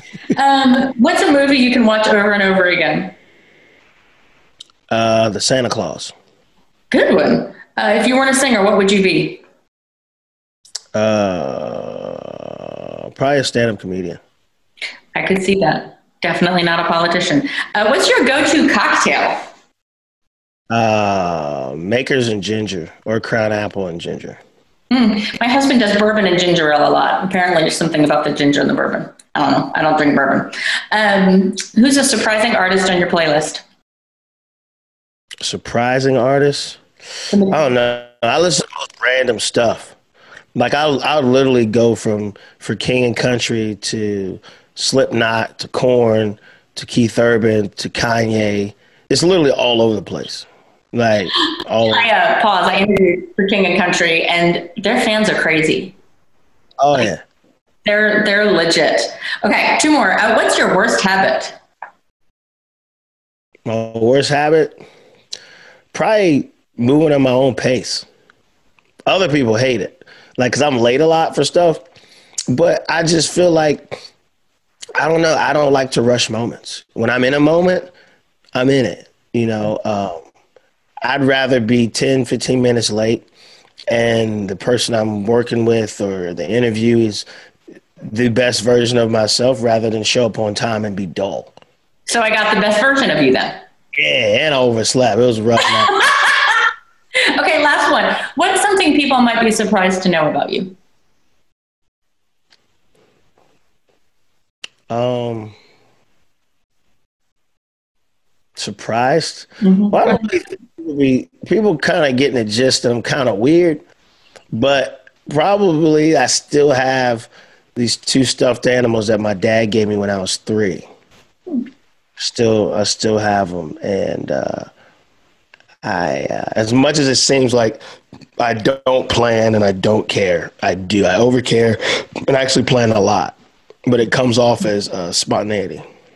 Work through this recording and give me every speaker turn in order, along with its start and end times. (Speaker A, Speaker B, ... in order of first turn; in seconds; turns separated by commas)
Speaker A: 0.3-3.1, Speaker B: 4.9-6.2, Speaker A: 6.9-9.4, Speaker B: 10.9-14.2, Speaker A: 15.2-19.5, Speaker B: 20.7-24.4, Speaker A: 24.9-33.6, Speaker B: 35.4-36.8, Speaker A: 37.3-37.7, Speaker B: 37.5-40.0, Speaker B: 40.5-52.1, Speaker A: 51.9-56.0, Speaker B: 56.8-57.2, Speaker A: 57.9-61.6, Speaker B: 63.7-64.8, Speaker B: 65.9-68.1, Speaker B: 69.1-71.8, Speaker B: 72.5-74.0, Speaker B: 75.0-77.9, Speaker B: 78.5-80.3, Speaker B: 81.0-83.3, Speaker B: 83.9-87.3, Speaker B: 88.0-91.5, Speaker A: 92.1-93.6, Speaker B: 94.0-95.9, Speaker A: 96.0-96.7, Speaker A: 97.3-100.8, Speaker B: 104.9-105.5, Speaker B: 108.6-113.8, Speaker A: 109.6-110.2, Speaker B: 114.5-120.9, Speaker B: 122.2-124.7, Speaker B: 125.8-127.8, Speaker B: 128.4-133.4, Speaker B: 133.9-135.8